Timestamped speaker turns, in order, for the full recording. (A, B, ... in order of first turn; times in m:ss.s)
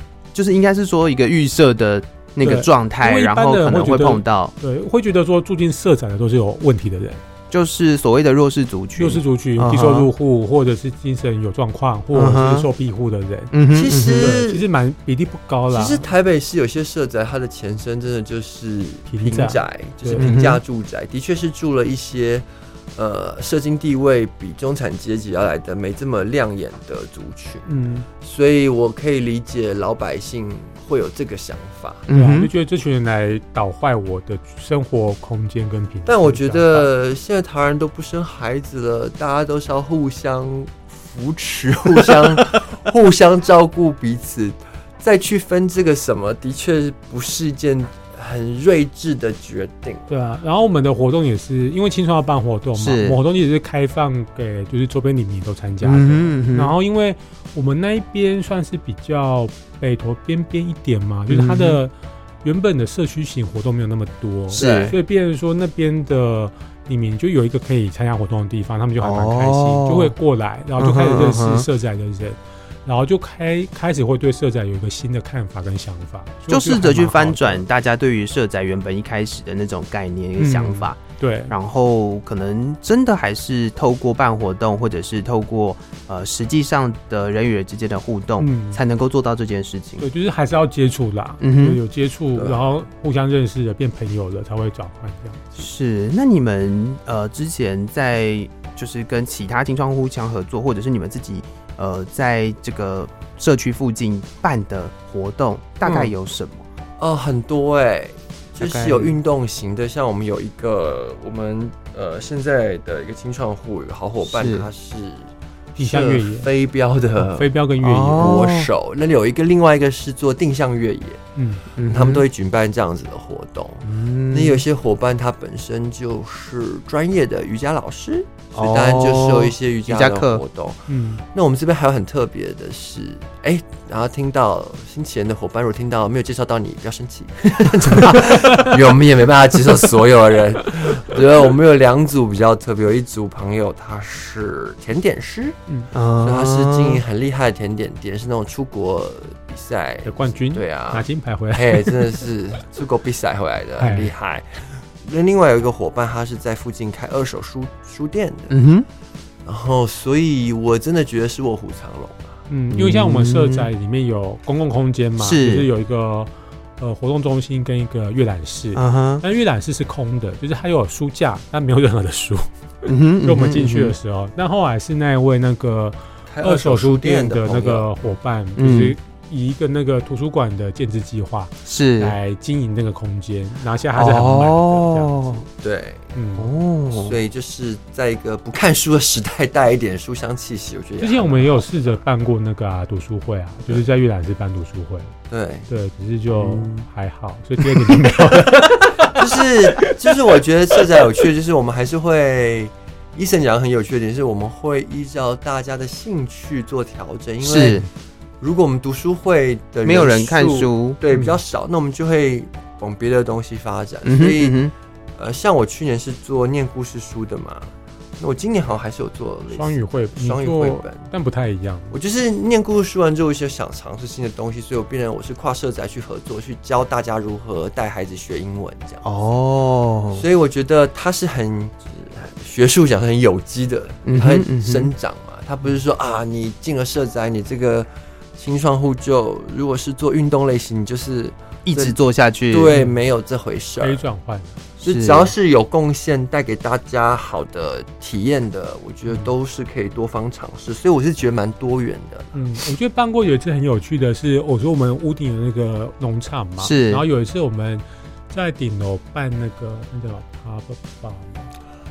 0:00.3-0:04.5 A
0:02.4-0:07.2 B
0:07.5-0:10.1 A
0:09.0-0:13.5 B
0:12.1-0:12.7 A
0:13.5-0:14.3 A
0:13.7-0:14.7 C
0:14.2-0:16.0 B
0:15.7-0:32.1 C
0:19.1-0:20.4 B
0:20.2-0:20.6 A
0:27.7-0:28.1 B
0:32.1-0:32.5 A
0:32.1-0:36.9 B
0:36.1-0:50.1 C
0:50.1-1:01.9 B
0:52.8-0:53.2 A
0:55.8-0:56.8 A
1:01.3-1:01.8 A
1:02.4-1:17.6 B
1:04.5-1:05.0 C
1:04.6-1:05.0 A
1:09.0-1:10.1 A
1:10.8-1:11.7 A
1:16.5-1:30.1 A
1:20.4-1:21.5 B
1:28.4-1:28.8 B
1:30.0-1:35.5 B
1:31.4-1:31.8 A
1:32.4-1:32.6 C
1:35.6-1:46.6 A
1:45.8-1:46.1 C
1:47.0-1:57.5 C
1:48.6-1:49.2 A
1:54.2-1:54.7 A
1:55.8-1:56.5 B
1:57.2-1:58.3 B
1:57.8-1:58.7 A
1:58.1-2:01.2 C
2:01.4-2:01.6 B
2:01.8-2:02.2 A
2:01.9-2:25.6 C
2:03.8-2:04.6 A
2:08.6-2:10.4 A
2:10.9-2:11.2 B
2:17.7-2:18.2 A
2:18.3-2:18.7 B
2:25.9-2:27.0 A
2:26.2-2:38.6 C
2:30.0-2:32.2 B
2:33.8-2:34.1 B
2:38.5-2:38.9 A
2:39.4-2:42.4 C
2:42.5-2:52.5 B
2:42.7-2:43.7 A
2:45.2-2:45.7 A
2:48.8-2:49.2 A
2:52.9-2:54.0 A
2:53.2-3:05.4 B
2:56.3-2:57.9 C
2:58.6-2:59.0 A
3:01.7-3:02.2 A
3:04.0-3:05.4 A
3:05.6-3:06.0 C
3:06.1-3:06.5 B
3:06.4-3:07.2 A
3:06.9-3:12.0 C
3:11.0-3:15.1 B
3:15.3-3:15.7 C
3:15.7-3:19.2 B
3:16.3-3:16.8 A
3:17.8-3:18.1 A
3:19.1-3:27.8 C
3:27.4-3:27.8 A
3:28.4-3:41.1 C
3:29.8-3:31.0 A
3:34.0-3:34.7 A
3:39.5-3:42.0 B
3:41.9-3:49.0 C
3:49.0-3:50.2 A
3:50.1-4:02.0 C
3:54.1-3:54.9 A
4:01.7-4:02.7 A
4:02.5-4:04.0 C
4:03.8-4:04.6 B
4:04.8-4:05.3 A
4:04.8-4:12.3 C
4:12.3-4:21.5 B
4:16.6-4:17.0 A